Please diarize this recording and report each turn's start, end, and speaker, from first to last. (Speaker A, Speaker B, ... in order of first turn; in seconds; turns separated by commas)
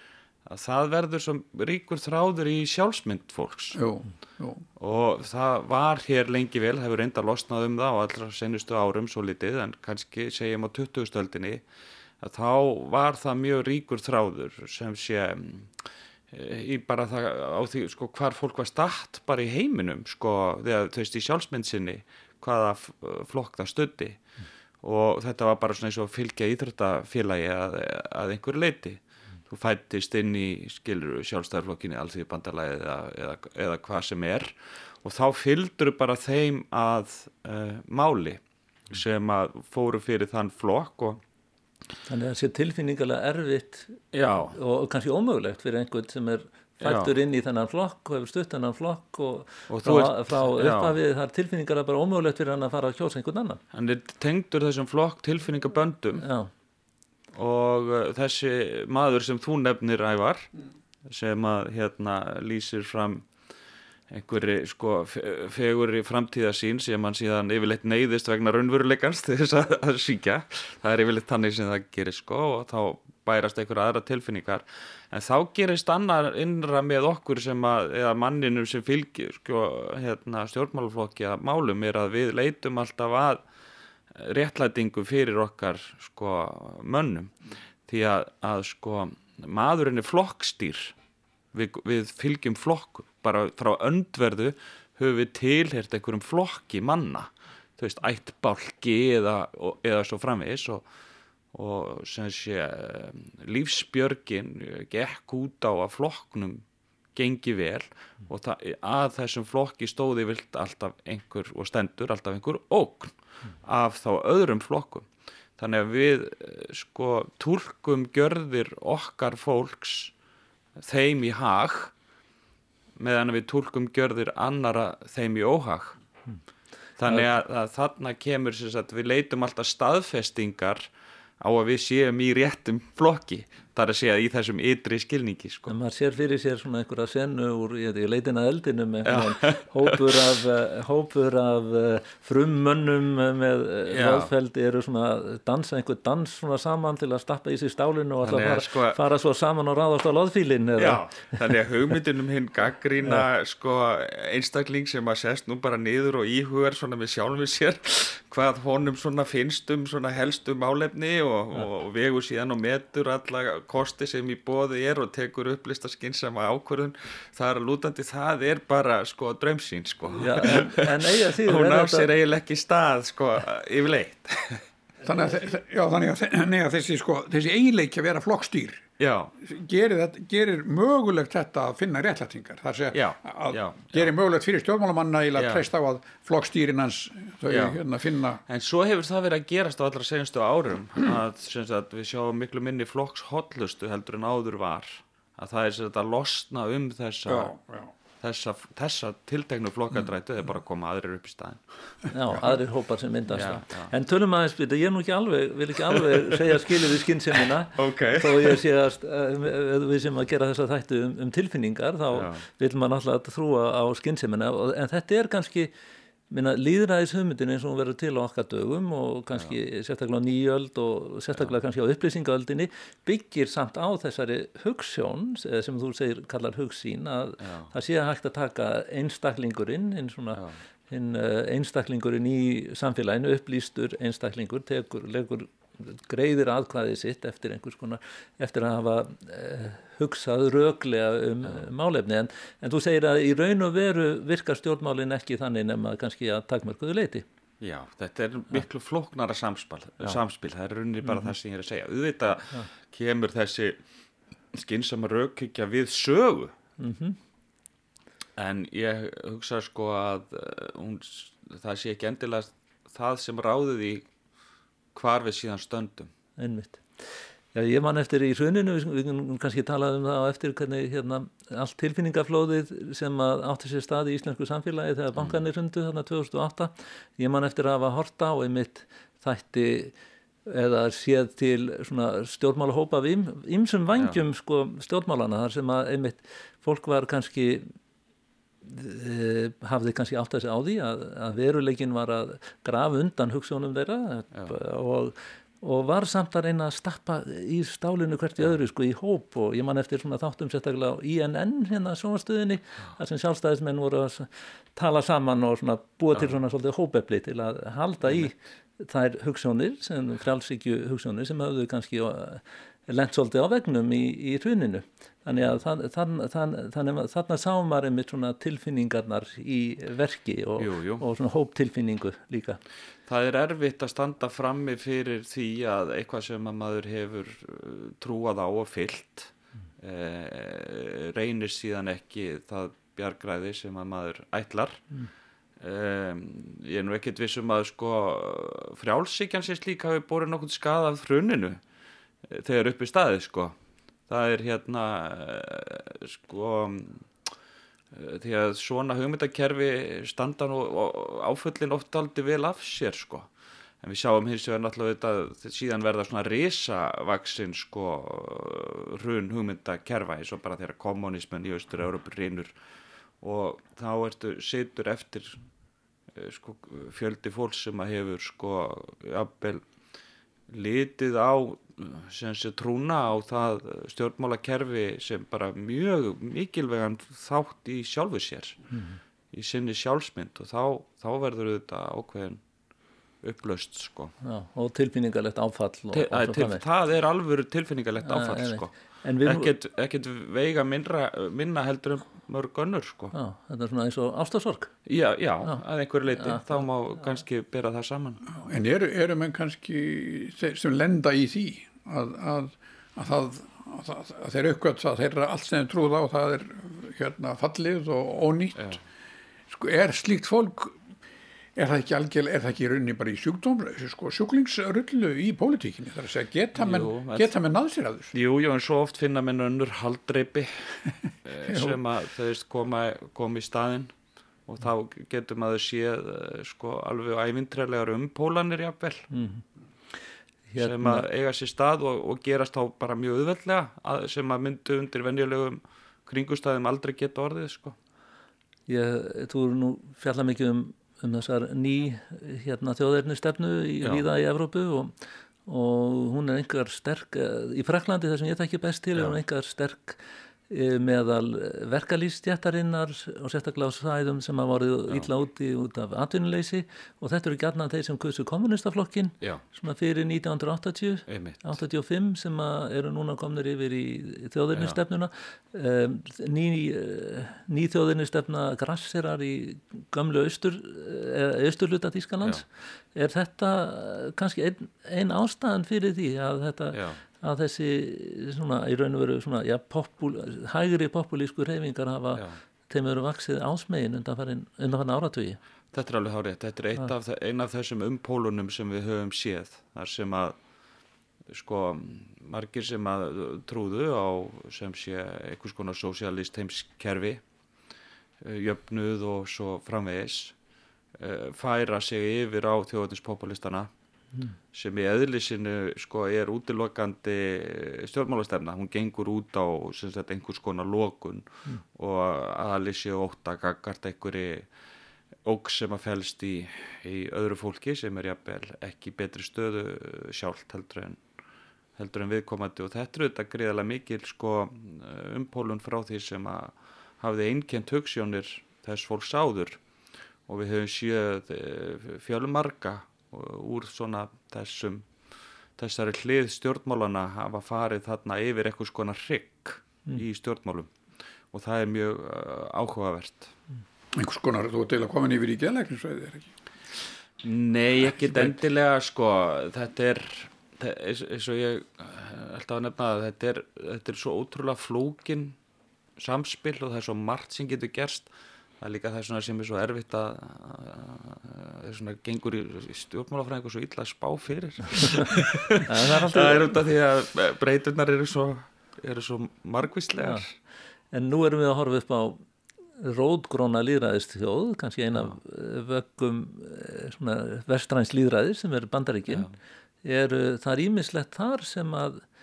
Speaker A: 0.5-3.8, Speaker B: 3.7-4.6, Speaker A: 4.8-11.6, Speaker A: 12.2-24.2, Speaker A: 24.8-41.2, Speaker C: 42.1-44.0, Speaker A: 44.1-44.6, Speaker C: 44.5-53.6, Speaker A: 46.8-47.1, Speaker A: 49.7-51.0, Speaker A: 53.7-56.2, Speaker C: 56.2-56.5, Speaker A: 57.3-60.5, Speaker A: 61.0-63.2, Speaker A: 64.1-83.4, Speaker A: 84.1-87.3, Speaker A: 87.9-90.9, Speaker A: 91.5-100.8, Speaker A: 101.5-106.6, Speaker A: 107.2-115.0, Speaker A: 115.6-120.1, Speaker A: 120.8-121.9, Speaker A: 123.0-126.0, Speaker A: 127.0-130.9, Speaker A: 131.4-135.7, Speaker C: 135.7-151.4, Speaker A: 139.0-140.2, Speaker A: 143.9-144.3, Speaker A: 148.2-149.0, Speaker A: 150.8-174.6, Speaker C: 170.2-172.1, Speaker B: 175.0-178.8, Speaker A: 179.0-179.3, Speaker B: 179.4-188.4, Speaker A: 182.9-184.1, Speaker A: 185.4-185.6, Speaker A: 187.4-187.8, Speaker A: 188.5-197.5, Speaker B: 197.3-197.9, Speaker A: 198.2-201.6, Speaker C: 202.1-215.7, Speaker A: 203.3-203.9, Speaker A: 205.9-206.4, Speaker A: 207.7-208.6, Speaker A: 212.1-212.4, Speaker C: 216.3-247.2, Speaker A: 227.4-227.7, Speaker A: 247.6-253.8, Speaker A: 254.5-256.5, Speaker C: 256.8-257.2, Speaker A: 258.4-264.0, Speaker A: 264.9-266.1, Speaker C: 266.4-266.8, Speaker C: 267.5-279.9, Speaker C: 280.4-287.7, Speaker C: 288.6-322.6, Speaker A: 320.6-321.0, Speaker A: 323.1-334.8, Speaker A: 335.6-341.6, Speaker A: 342.2-343.5, Speaker A: 344.1-347.1, Speaker A: 347.9-353.3, Speaker A: 353.8-362.5, Speaker A: 363.2-365.4, Speaker A: 366.1-369.6, Speaker A: 370.5-378.6, Speaker C: 378.7-379.0, Speaker A: 379.3-382.4, Speaker A: 383.2-384.1, Speaker C: 384.2-386.6, Speaker A: 385.9-388.7, Speaker C: 388.0-389.5, Speaker A: 389.2-393.1, Speaker C: 393.1-394.7, Speaker A: 394.9-398.2, Speaker B: 398.4-408.8, Speaker B: 409.5-410.8, Speaker B: 411.6-418.1, Speaker A: 416.6-417.3, Speaker A: 418.1-423.9, Speaker A: 424.5-429.1, Speaker C: 429.1-429.4, Speaker C: 430.5-431.0, Speaker A: 430.6-437.8, Speaker C: 438.7-444.9, Speaker C: 445.4-485.4, Speaker A: 461.1-461.6, Speaker A: 476.7-477.0, Speaker A: 485.7-490.4, Speaker A: 491.3-497.2, Speaker A: 498.2-500.3, Speaker A: 500.9-503.7, Speaker A: 504.5-514.5, Speaker A: 515.2-521.0, Speaker A: 521.8-529.6, Speaker A: 530.3-534.9, Speaker A: 535.6-540.7, Speaker A: 541.3-543.3, Speaker B: 544.0-546.3, Speaker A: 547.2-555.4, Speaker A: 556.0-570.3, Speaker C: 564.9-566.6, Speaker C: 570.9-572.2, Speaker C: 572.8-579.3, Speaker A: 579.1-579.4, Speaker C: 579.8-582.0